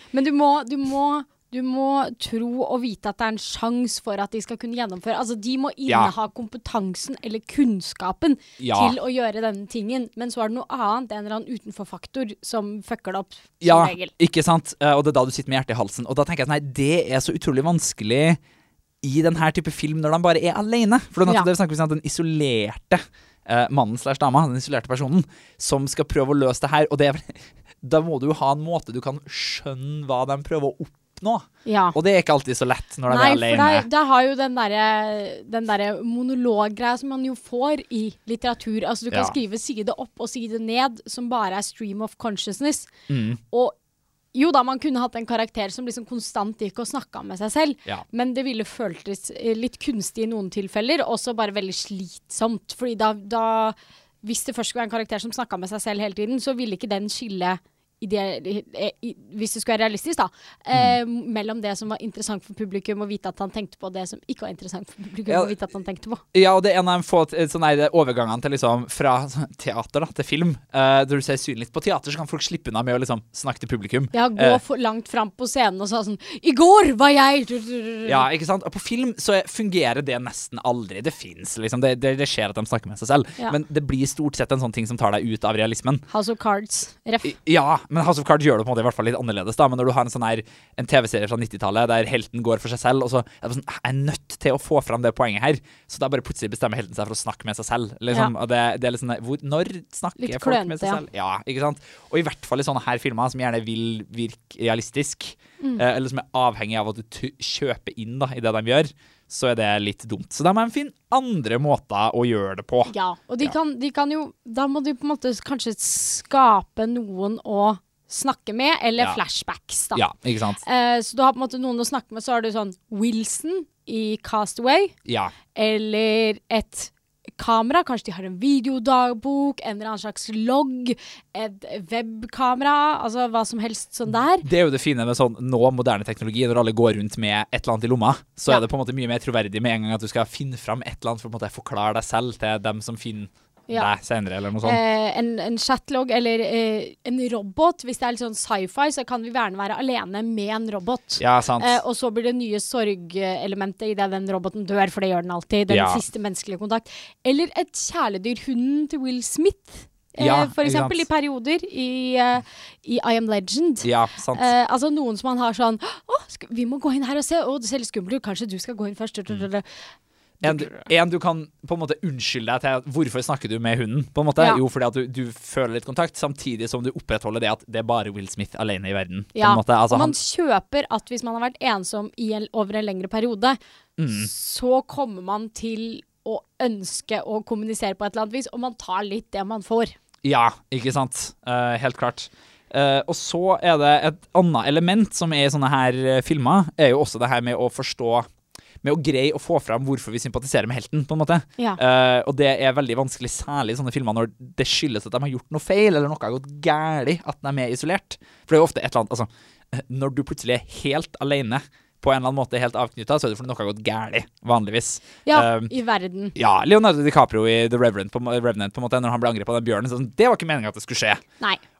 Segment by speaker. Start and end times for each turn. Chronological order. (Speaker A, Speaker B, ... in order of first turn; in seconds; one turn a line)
Speaker A: 0.1-14.1
Speaker B: 5.9-6.1
Speaker B: 8.6-9.0
Speaker B: 13.6-18.4
Speaker B: 19.0-33.9
Speaker A: 31.7-32.0
Speaker A: 33.1-42.9
Speaker B: 43.1-43.4
Speaker A: 43.5-43.8
Speaker A: 44.3-66.2
Speaker B: 65.3-65.5
Speaker B: 66.3-74.6
Speaker A: 74.1-78.3
Speaker B: 78.1-86.0
Speaker A: 86.1-87.3
Speaker B: 87.2-113.5
Speaker A: 100.2-101.0
Speaker A: 112.9-120.0
Speaker B: 119.9-120.6
Speaker A: 120.6-124.9
Speaker B: 125.1-125.3
Speaker A: 125.5-134.4
Speaker B: 134.4-144.8
Speaker A: 144.6-169.7
Speaker B: 151.2-151.8
Speaker B: 155.7-156.0
Speaker B: 160.2-161.1
Speaker B: 163.8-164.5
Speaker A: 170.4-170.9
Speaker B: 170.4-180.2
Speaker A: 179.3-183.6
Speaker B: 184.0-184.3
Speaker A: 184.1-189.9
Speaker B: 190.2-198.3
Speaker B: 198.8-215.7
Speaker A: 215.3-216.3
Speaker B: 216.3-221.2